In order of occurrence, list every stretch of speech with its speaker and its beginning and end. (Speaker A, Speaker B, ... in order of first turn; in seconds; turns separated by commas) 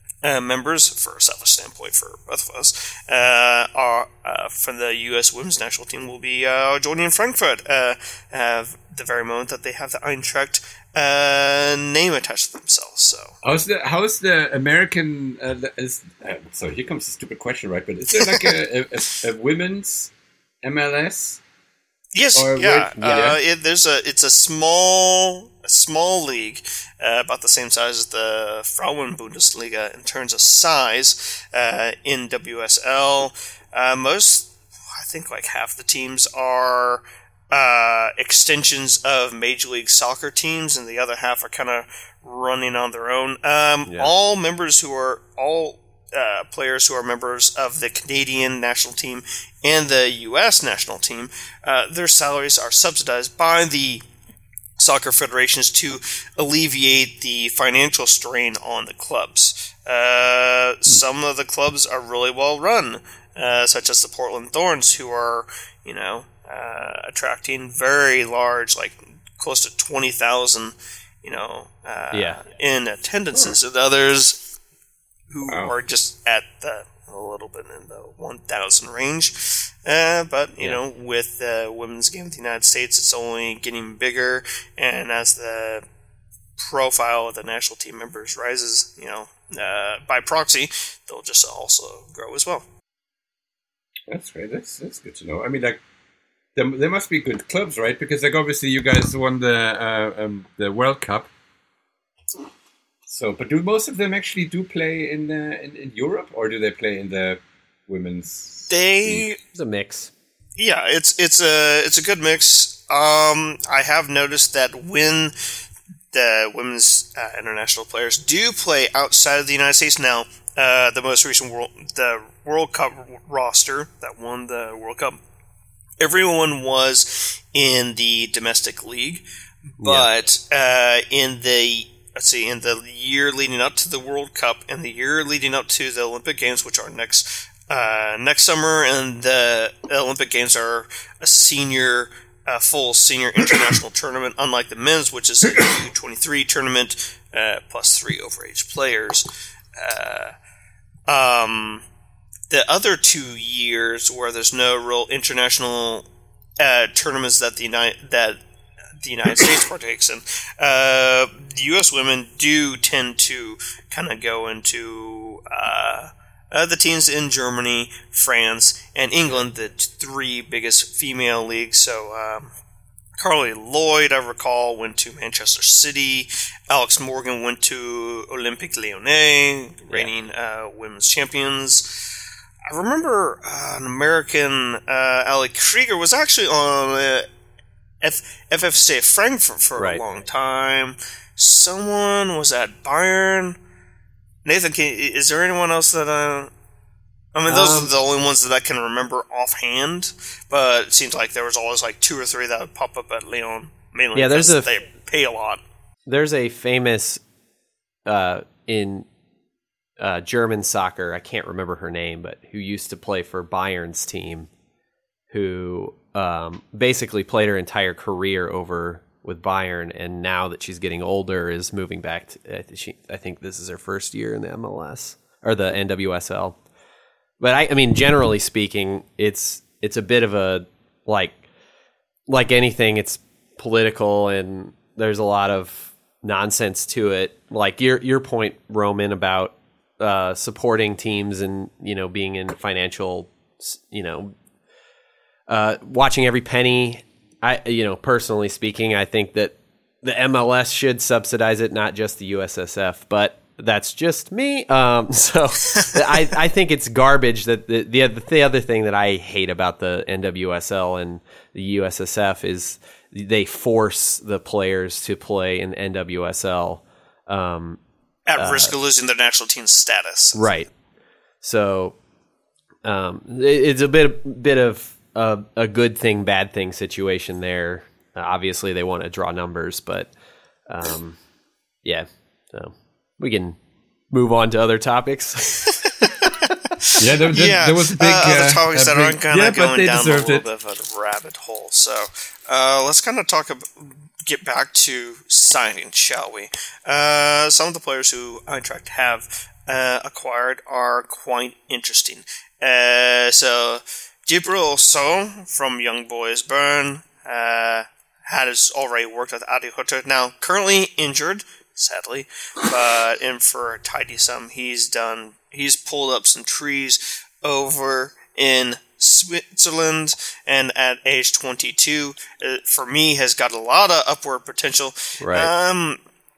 Speaker A: 0.2-13.3, Speaker B: 13.4-20.1, Speaker A: 18.2-18.5, Speaker B: 20.6-21.4, Speaker A: 22.1-54.0, Speaker B: 22.4-23.4, Speaker A: 54.8-74.5, Speaker C: 72.1-72.4, Speaker A: 75.3-85.8, Speaker B: 75.5-75.7, Speaker A: 86.6-92.6, Speaker B: 94.1-95.8, Speaker B: 96.5-101.3, Speaker B: 103.1-109.2, Speaker A: 108.7-109.4, Speaker C: 109.5-110.1, Speaker A: 110.6-115.3, Speaker A: 116.1-125.2, Speaker A: 126.0-129.2, Speaker C: 129.8-130.1, Speaker A: 129.8-150.3, Speaker A: 151.1-151.8, Speaker A: 152.5-156.1, Speaker A: 156.6-158.4, Speaker A: 159.0-172.5, Speaker A: 173.2-182.1, Speaker A: 182.7-187.2, Speaker A: 188.0-193.6, Speaker A: 194.4-196.5, Speaker A: 197.3-205.6, Speaker C: 197.5-197.9, Speaker C: 204.1-204.7, Speaker C: 206.1-207.2, Speaker C: 208.1-209.1, Speaker C: 210.0-214.5, Speaker C: 215.3-226.6, Speaker C: 227.4-231.4, Speaker C: 232.3-244.3, Speaker C: 245.5-267.8, Speaker A: 268.2-270.5, Speaker C: 268.4-268.7, Speaker C: 270.3-270.7, Speaker C: 271.4-272.0, Speaker C: 272.8-280.1, Speaker C: 280.7-281.2, Speaker C: 281.8-283.6, Speaker C: 284.1-285.7, Speaker A: 286.4-326.0, Speaker B: 287.0-290.4, Speaker C: 325.2-325.5